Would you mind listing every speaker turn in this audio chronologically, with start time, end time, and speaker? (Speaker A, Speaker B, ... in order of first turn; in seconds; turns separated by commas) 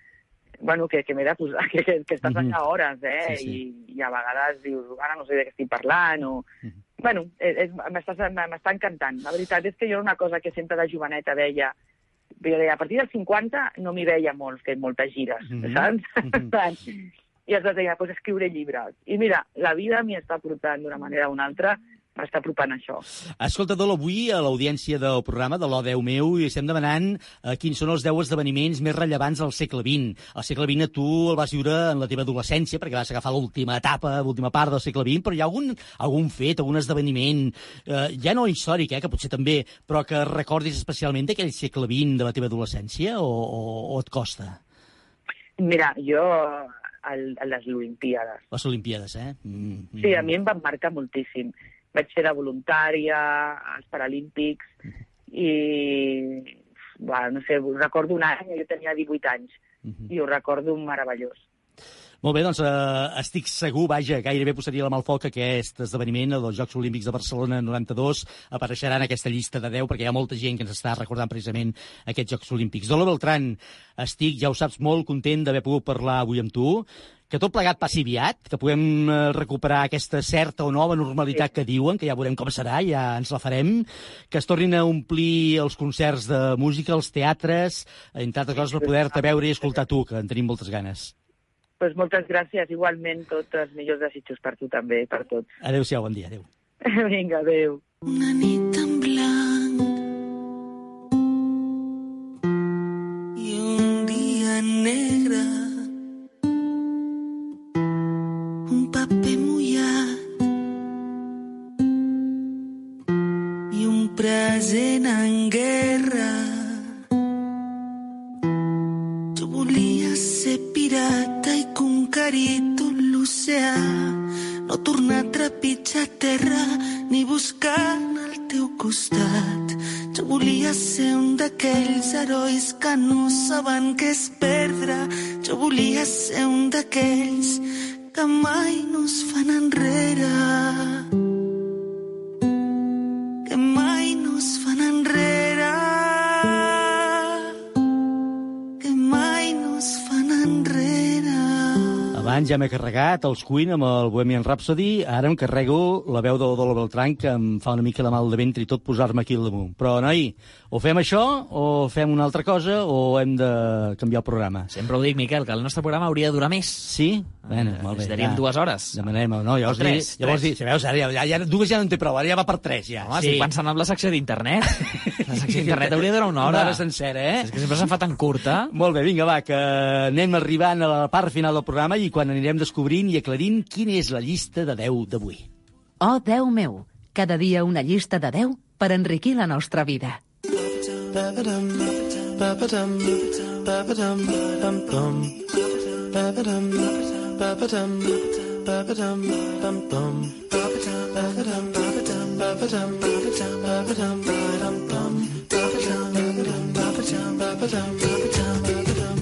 Speaker A: 0.6-6.5, Speaker B: 2.2-2.6, Speaker B: 3.2-3.6, Speaker A: 7.0-11.7, Speaker A: 12.4-16.9, Speaker B: 15.5-16.5, Speaker A: 17.5-23.0, Speaker B: 23.4-44.6, Speaker A: 45.6-48.4, Speaker B: 48.5-50.3, Speaker A: 50.0-54.7, Speaker A: 55.3-59.6, Speaker A: 60.1-61.4, Speaker B: 62.2-91.1, Speaker A: 88.6-89.2, Speaker A: 91.8-95.5, Speaker B: 95.6-96.5, Speaker A: 96.8-97.8, Speaker C: 98.0-100.0, Speaker C: 103.4-105.9, Speaker C: 108.7-110.2, Speaker C: 113.7-116.9, Speaker C: 119.3-141.1, Speaker C: 143.5-147.4, Speaker C: 148.8-152.2, Speaker B: 152.1-164.7, Speaker D: 164.7-166.9, Speaker B: 166.8-168.4, Speaker D: 167.4-169.0, Speaker B: 168.9-173.5, Speaker D: 169.7-170.5, Speaker D: 173.0-176.8, Speaker B: 174.8-177.9, Speaker D: 177.4-178.7, Speaker B: 178.7-185.4, Speaker E: 186.0-190.2, Speaker C: 191.2-191.8, Speaker C: 192.5-193.2, Speaker C: 194.1-195.3, Speaker C: 199.9-200.4, Speaker C: 204.8-206.3